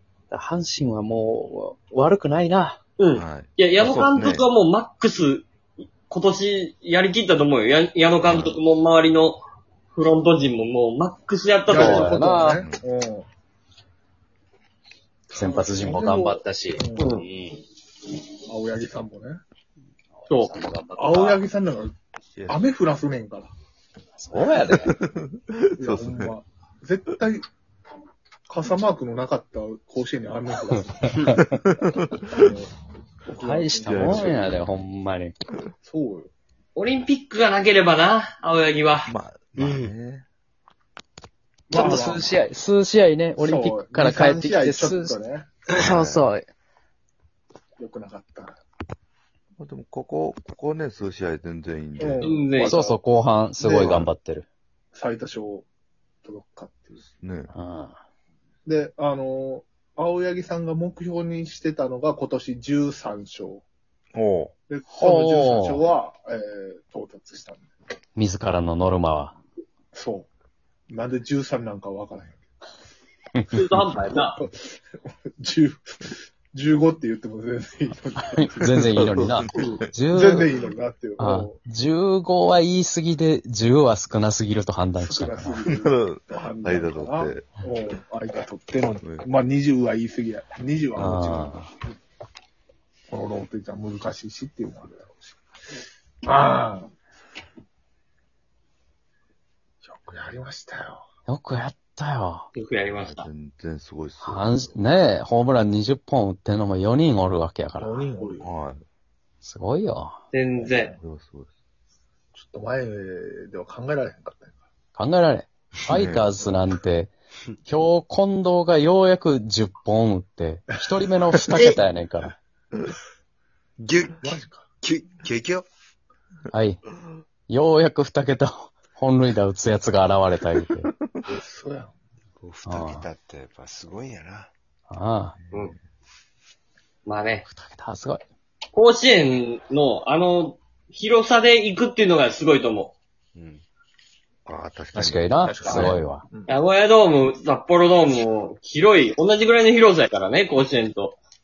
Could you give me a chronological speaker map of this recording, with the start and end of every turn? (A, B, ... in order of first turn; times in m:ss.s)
0:00.3-0:02.8 A
0:03.0-0:05.5 B
0:03.1-0:04.4 C
0:06.1-0:09.4 B
0:08.2-0:08.6 C
0:09.9-0:12.2 B
0:11.6-0:13.3 D
0:11.7-0:12.6 A
0:15.3-0:17.2 D
0:15.3-0:17.6 A
0:17.0-0:17.3 B
0:18.5-0:19.4 D
0:20.2-0:21.4 A
0:20.3-0:20.6 B
0:21.0-0:21.9 D
0:22.3-0:22.6 C
0:22.5-0:23.5 D
0:24.2-0:24.9 A
0:24.7-0:26.3 C
0:25.8-0:27.5 D
0:28.5-0:31.4 D
0:32.3-0:32.7 D
0:33.3-0:34.5 D
0:33.4-0:35.3 A
0:33.8-0:34.5 C
0:35.8-0:36.3 D
0:36.8-0:39.1 B
0:39.0-0:40.2 C
0:39.6-0:39.9 E
0:41.7-0:42.4 D
0:41.7-0:45.2 A
0:43.4-0:45.5 D
0:45.7-0:46.4 A
0:45.8-0:46.3 C
0:47.8-0:48.6 D
0:49.6-0:52.4 C
0:52.0-0:53.0 D
0:52.2-0:52.8 B
0:52.6-0:54.4 A
0:53.6-0:54.0 D
0:53.8-0:54.1 C
0:54.9-0:55.6 D
0:56.2-0:57.0 D
0:57.0-0:57.5 C
0:57.5-0:58.0 A
0:58.6-1:03.6 D
1:04.1-1:04.5 C
1:04.7-1:07.7 D
1:04.9-1:05.9 A
1:08.2-1:09.4 A
1:09.9-1:10.3 D
1:10.9-1:12.4 D
1:13.5-1:14.4 B
1:14.2-1:21.6 D
1:18.4-1:20.5 A
1:18.8-1:19.9 C
1:21.2-1:25.5 A
1:25.0-1:31.7 D
1:25.7-1:27.5 C
1:29.0-1:29.3 C
1:31.0-1:31.7 A
1:33.1-1:35.4 D
1:36.2-1:36.9 D
1:39.8-1:41.0 D
1:41.3-1:42.5 A
1:42.5-1:43.3 B
1:43.0-1:44.5 C
1:44.2-1:48.1 A
1:47.8-1:48.5 D
1:48.4-1:48.8 C
1:49.4-1:50.2 A
1:50.3-1:50.9 B
1:50.5-1:51.0 D
1:51.0-1:51.5 C
1:52.3-1:54.5 D
1:54.9-1:57.1 A
1:55.9-1:56.2 C
1:57.6-2:02.4 A
2:03.8-2:05.6 E
2:04.2-2:04.7 D
2:06.5-2:06.8 A
2:07.5-2:10.9 A
2:11.2-2:11.9 D
2:12.4-2:14.5 E
2:12.6-2:13.1 A
2:14.9-2:15.3 A
2:15.4-2:15.8 C
2:17.0-2:17.5 B
2:17.5-2:18.2 A
2:18.7-2:22.9 B
2:23.4-2:23.6 E
2:24.4-2:26.0 C
2:24.9-2:26.2 A
2:25.4-2:26.6 D
2:26.5-2:31.2 B